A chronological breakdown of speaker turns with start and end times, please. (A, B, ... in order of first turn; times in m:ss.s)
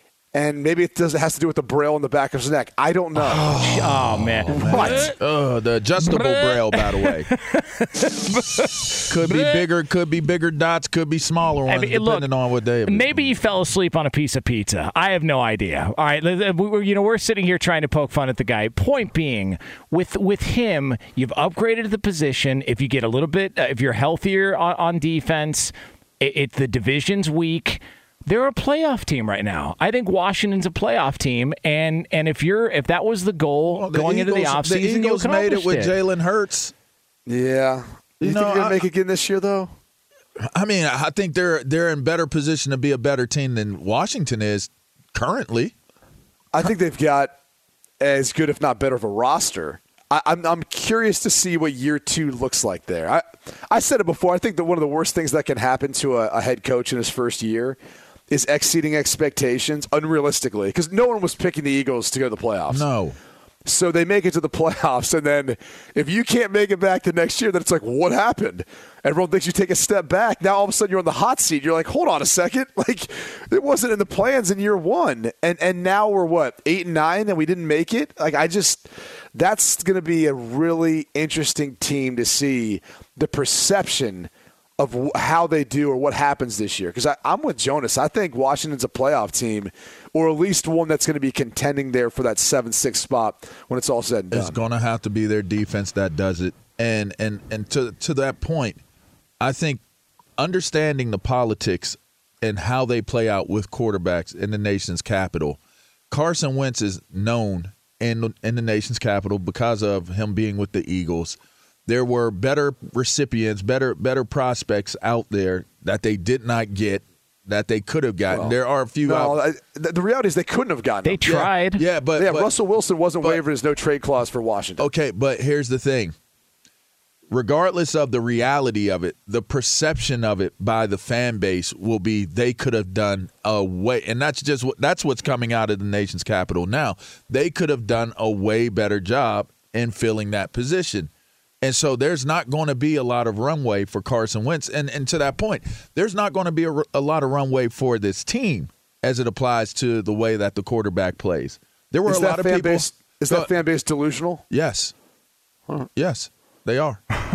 0:00.3-0:03.6 A
0:03.2-0:07.3 B
0:03.5-0:05.2 C
0:04.5-0:05.1 A
0:06.0-0:09.6 C
0:09.1-0:13.4 B
0:11.7-0:12.3 C
0:12.8-0:35.9 C
0:33.7-0:36.7 B
0:37.3-0:39.7 A
0:38.2-0:38.8 B
0:40.4-0:45.7 B
0:46.5-0:47.3 A
0:48.0-0:57.8 A
0:58.3-1:02.8 A
1:02.7-1:03.2 B
1:03.6-1:34.6 A
1:34.3-1:38.8 B
1:39.4-1:39.8 B
1:40.4-1:45.6 B
1:46.1-1:59.4 B
1:58.3-2:01.5 A
2:01.0-2:01.8 C
2:01.3-2:02.5 B
2:02.2-2:04.9 A
2:04.8-2:06.1 B
2:07.3-2:21.1 B
2:21.6-2:33.5 B
2:32.0-2:34.4 A
2:34.5-2:34.9 B
2:36.0-2:37.0 B